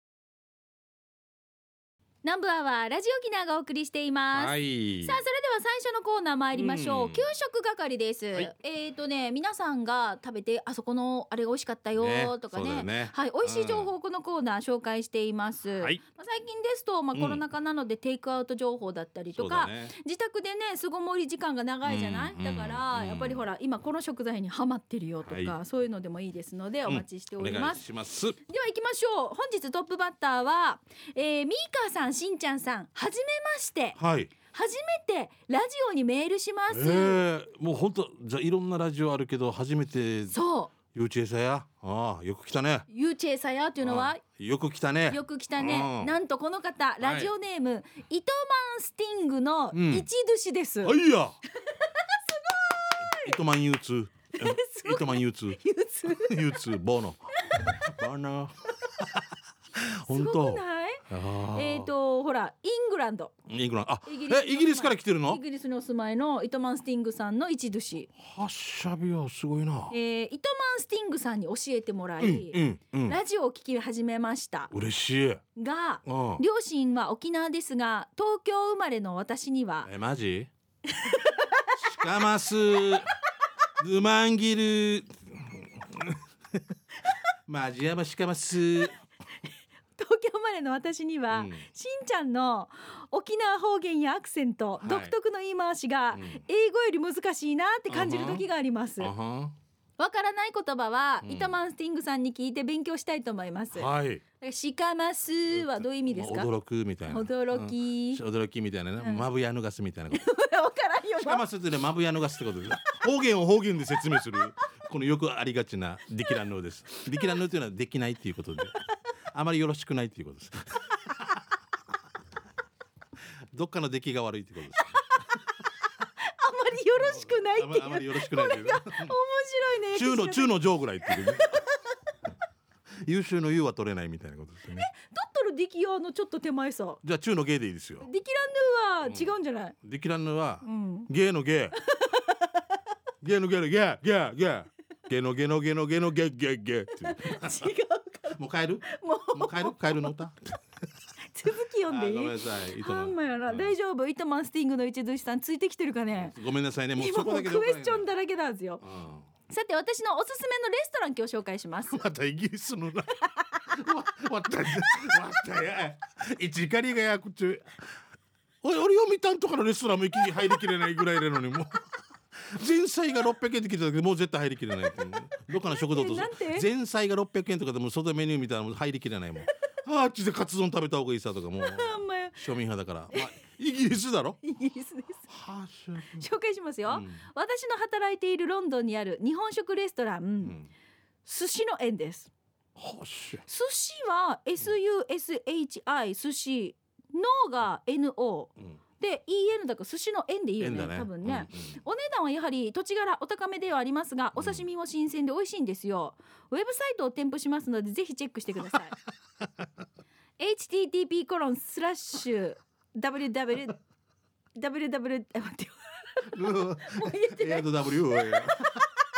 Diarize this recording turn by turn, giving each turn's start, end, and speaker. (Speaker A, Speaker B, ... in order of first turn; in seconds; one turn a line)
Speaker A: 2.2-27.8
Speaker B: 4.3-5.2
Speaker B: 6.5-7.3
Speaker B: 12.0-13.9
Speaker B: 17.1-17.4
Speaker B: 19.3-19.9
Speaker B: 21.8-23.5
Speaker B: 25.2-25.6
Speaker B: 26.9-28.4
Speaker A: 28.5-34.0
Speaker B: 34.0-34.3
Speaker A: 34.5-37.2
Speaker B: 36.7-40.4
Speaker A: 40.3-40.7
Speaker B: 40.9-42.9
Speaker A: 42.9-44.2
Speaker B: 43.8-46.1
Speaker A: 45.1-51.0
Speaker B: 47.0-47.3
Speaker B: 49.7-50.1
Speaker B: 50.8-51.4
Speaker A: 51.6-53.4
Speaker B: 53.0-59.2
Speaker A: 54.3-56.6
Speaker A: 57.5-57.8
Speaker B: 59.8-61.9
Speaker A: 60.0-63.3
Speaker B: 63.5-65.4
Speaker A: 64.0-68.1
Speaker B: 68.2-69.9
Speaker A: 69.9-74.7
Speaker B: 72.2-73.2
Speaker B: 74.7-75.4
Speaker A: 75.5-79.9
Speaker B: 76.0-76.4
Speaker B: 79.8-80.5
Speaker A: 80.9-81.8
Speaker B: 81.8-83.1
Speaker A: 82.8-83.1
Speaker B: 83.8-86.6
Speaker B: 87.5-89.0
Speaker A: 90.0-99.1
Speaker B: 91.3-91.6
Speaker B: 94.8-95.1
Speaker B: 96.1-96.4
Speaker B: 97.9-98.4
Speaker B: 99.0-99.5
Speaker A: 100.0-106.5
Speaker B: 101.2-101.5
Speaker B: 103.7-104.2
Speaker B: 105.5-110.2
Speaker A: 107.1-108.2
Speaker A: 110.1-111.4
Speaker B: 111.2-118.8
Speaker B: 119.3-121.5
Speaker B: 123.5-125.0
Speaker A: 124.8-125.2
Speaker A: 126.2-131.7
Speaker B: 127.0-129.1
Speaker B: 129.9-131.6
Speaker B: 133.0-134.9
Speaker A: 134.7-137.0
Speaker B: 137.0-138.1
Speaker A: 138.0-139.7
Speaker B: 139.0-141.8
Speaker A: 140.6-141.1
Speaker A: 141.8-142.6
Speaker B: 143.2-147.7
Speaker A: 147.0-150.1
Speaker B: 148.3-150.6
Speaker A: 151.3-156.3
Speaker B: 151.9-153.7
Speaker B: 156.1-158.0
Speaker A: 157.0-158.8
Speaker B: 158.8-159.3
Speaker A: 159.5-162.1
Speaker B: 161.9-167.8
Speaker A: 163.2-163.8
Speaker B: 168.6-171.8
Speaker B: 172.3-184.4
Speaker A: 175.6-176.7
Speaker A: 181.6-182.4
Speaker A: 184.4-185.3
Speaker B: 185.3-186.3
Speaker A: 186.1-190.6
Speaker B: 186.9-187.2
Speaker B: 190.4-190.7
Speaker A: 191.2-192.3
Speaker B: 192.8-193.4
Speaker A: 193.5-208.9
Speaker B: 200.6-201.8
Speaker B: 204.3-204.6
Speaker A: 210.4-213.8
Speaker A: 214.6-216.3
Speaker B: 216.3-218.8
Speaker A: 216.8-218.5